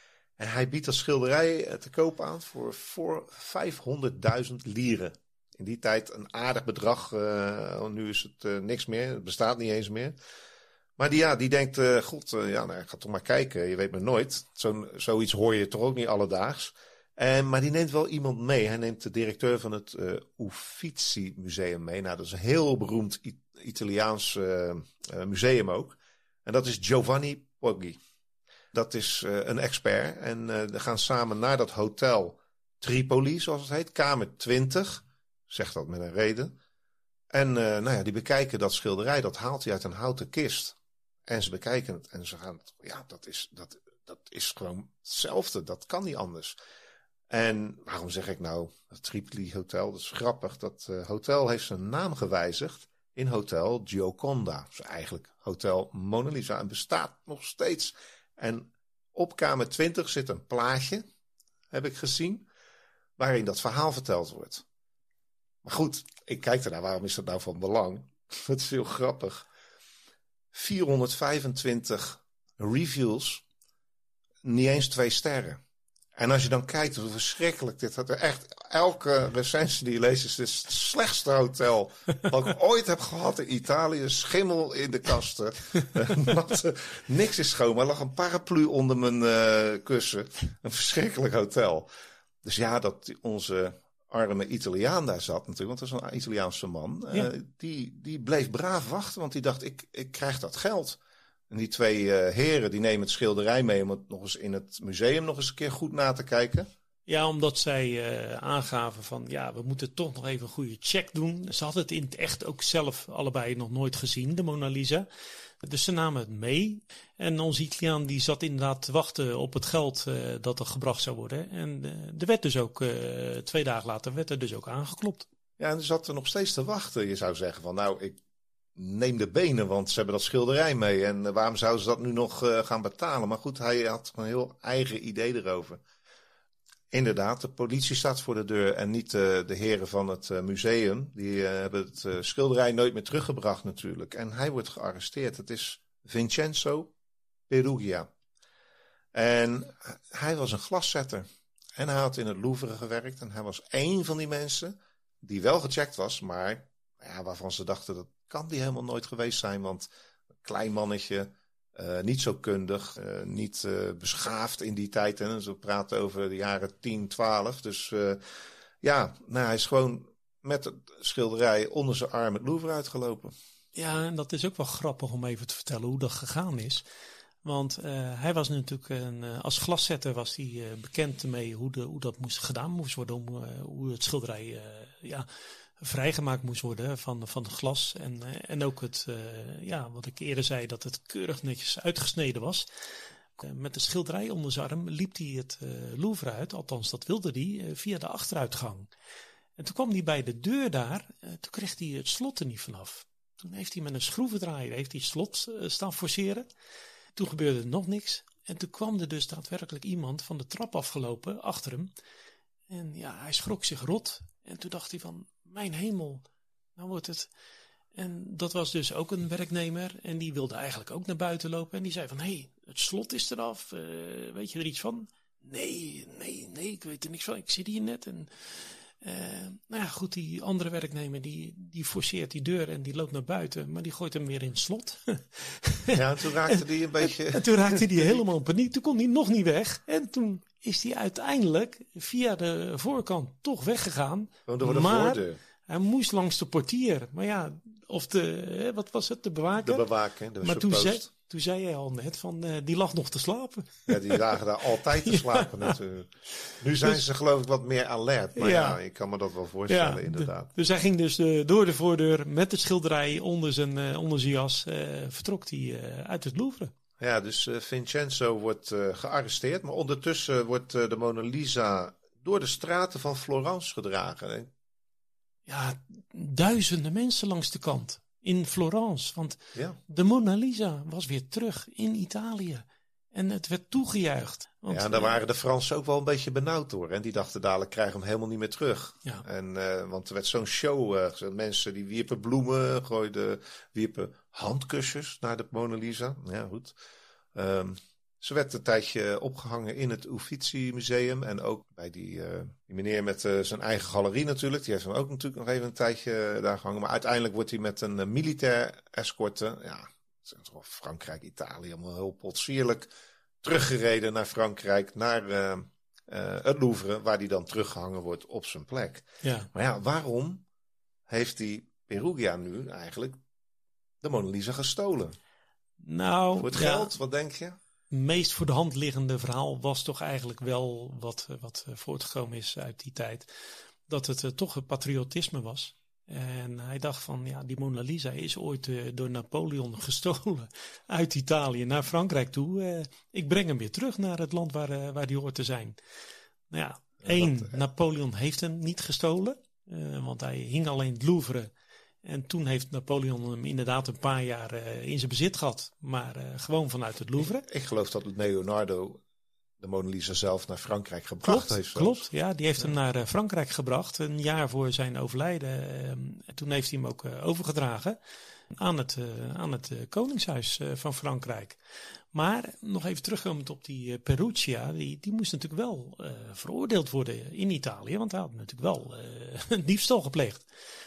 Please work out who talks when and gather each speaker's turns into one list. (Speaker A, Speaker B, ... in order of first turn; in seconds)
Speaker A: 0.4-10.2, 11.0-28.0, 28.7-36.5, 37.3-40.8, 41.3-46.5, 47.3-61.0, 61.7-62.5, 63.2-64.6, 65.6-69.5, 70.5-73.4, 74.4-75.6, 76.2-91.9, 92.4-101.0, 101.5-106.7, 125.6-128.2, 128.8-135.8, 136.9-146.9, 147.5-148.1, 149.1-159.9, 160.4-168.2, 168.8-173.3, 235.9-238.2, 244.4-245.4, 249.6-251.1, 253.9-260.5, 267.0-274.5, 284.7-296.8, 297.3-312.9, 313.4-320.4, 321.1-323.2, 324.0-325.1, 326.4-327.6, 347.0-347.6, 357.4-359.0, 359.6-362.1
Speaker B: 107.0-115.0, 115.6-125.2, 173.7-176.8, 177.4-185.3, 185.8-192.7, 193.4-198.9, 199.6-206.5, 207.1-211.9, 212.7-216.2, 216.8-217.3, 217.9-249.8, 250.4-254.2, 255.1-255.7, 258.4-258.8, 259.7-266.7, 275.4-285.2, 319.2-319.5, 325.8-326.9, 327.9-333.3, 333.9-345.8, 346.5-351.5, 352.0-357.4, 361.2-368.0, 368.5-371.6, 372.1-380.4